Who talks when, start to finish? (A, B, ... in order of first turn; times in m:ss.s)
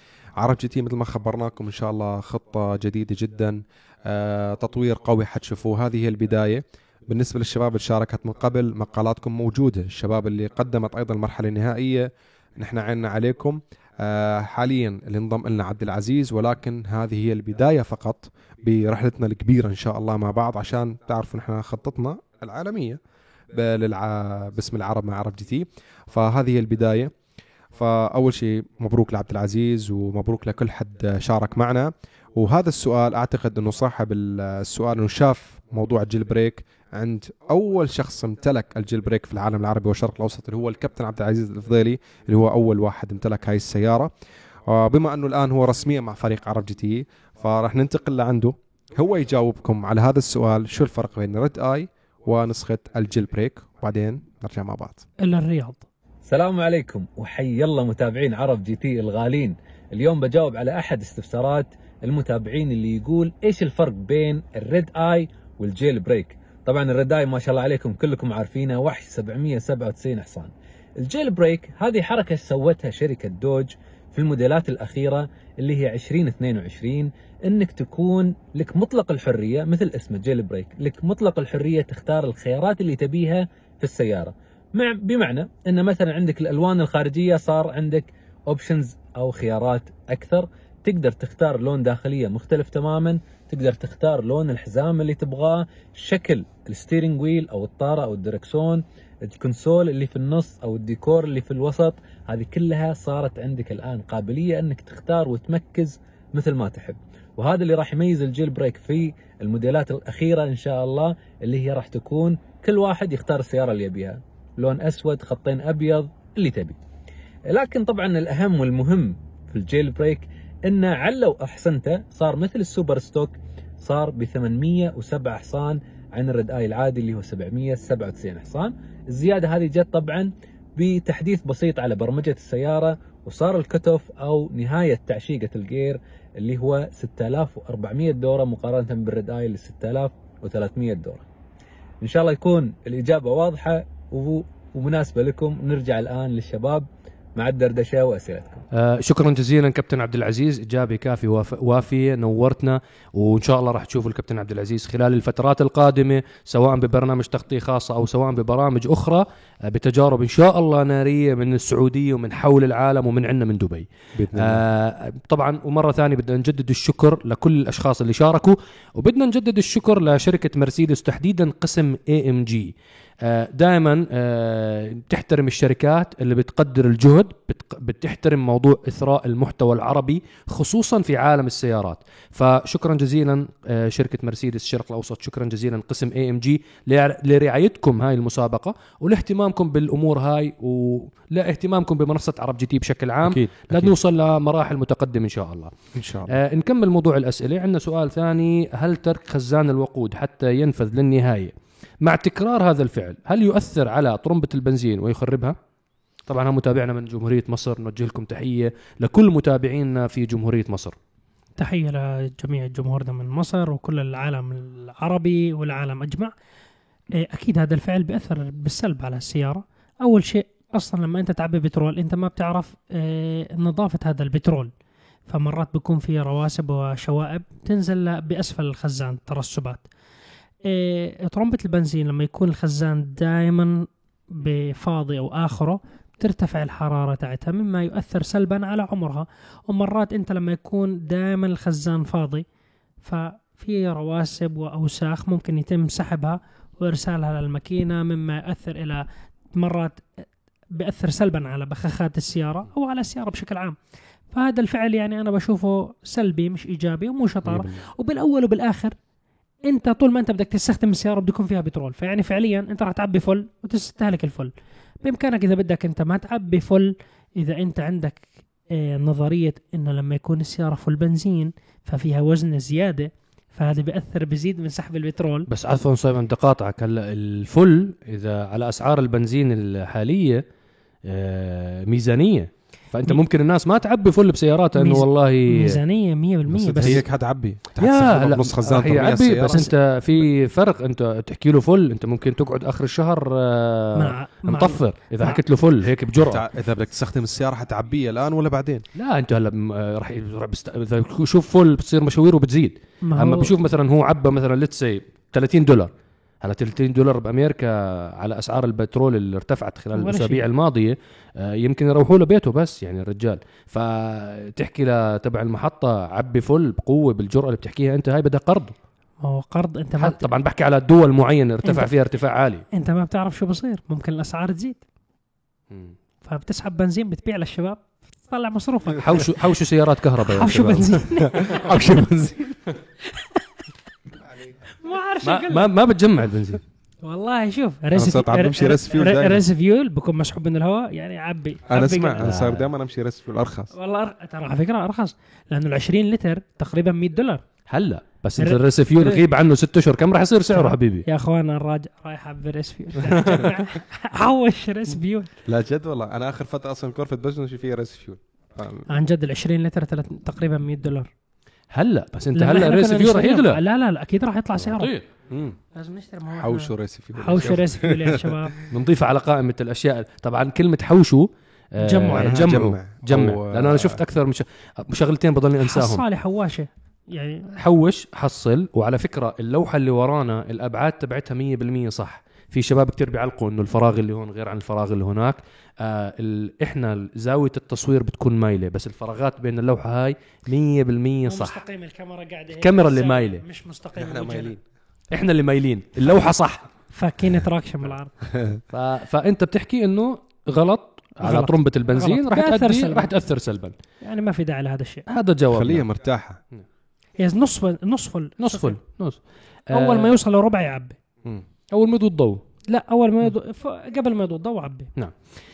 0:00.4-0:23.0 A
0:23.5-0:27.1 A
0:27.7-0:44.1 A
0:44.6-0:55.0 A
0:55.2-0:55.8 B
0:56.3-1:56.8 C
1:57.5-2:21.2 C
2:22.0-2:28.6 C
2:28.7-3:15.7 D
2:44.1-2:44.6 A
3:13.2-3:13.9 A
3:15.9-3:16.3 A
3:16.3-3:25.6 D
3:26.3-3:30.9 D
3:31.6-3:36.3 B
3:37.2-3:44.7 B
3:45.3-3:49.8 B
3:50.6-4:02.4 B
4:03.0-4:09.0 B
4:09.6-4:13.8 B
4:14.3-4:18.9 B
4:17.4-4:17.8 A
4:19.6-4:35.5 B
4:35.5-4:40.4 D
4:41.0-4:45.8 D
4:44.8-4:47.0 B
4:46.5-4:49.6 A
4:47.8-4:56.4 D
4:53.9-4:55.4 B
4:56.2-4:58.8 A
4:59.0-5:05.9 D
5:03.0-5:03.5 B
5:06.4-5:18.7 D
5:09.9-5:10.4 B
5:19.2-5:20.3 B
5:20.0-5:22.6 D
5:21.6-5:21.9 B
5:22.7-5:24.8 B
5:26.2-5:29.3 B
5:29.0-5:31.0 D
5:30.2-5:32.1 B
5:31.2-5:32.4 A
5:33.1-5:33.4 B
5:34.7-5:35.7 B
5:35.2-5:36.6 D
5:37.0-5:42.3 B
5:37.9-5:39.4 A
5:41.7-5:43.7 A
5:42.2-5:42.7 D
5:43.7-5:47.4 B
5:47.7-5:51.0 D
5:48.4-5:49.2 B
5:50.5-5:55.3 B
5:55.4-5:58.8 A
5:58.9-6:01.1 B
6:01.7-6:03.6 D
6:02.4-6:04.9 B
6:04.6-6:05.0 D
6:05.3-6:05.6 A
6:05.7-6:08.5 B
6:06.3-6:08.5 A
6:08.7-6:16.0 D
6:11.8-6:12.4 B
6:12.1-6:14.0 A
6:15.6-6:17.6 B
6:17.6-6:31.6 D
6:31.2-6:34.5 B
6:32.6-6:33.4 D
6:33.9-6:34.6 A
6:35.1-6:36.7 D
6:36.9-6:38.1 B
6:38.2-6:38.6 A
6:38.7-6:43.7 D
6:41.2-6:43.1 B
6:44.0-6:45.0 B
6:45.1-6:45.8 D
6:45.5-6:46.4 A
6:47.2-6:48.8 B
6:48.4-6:49.2 D
6:49.7-6:50.2 D
6:49.7-6:51.0 B
6:51.7-6:52.4 D
6:52.7-6:54.9 B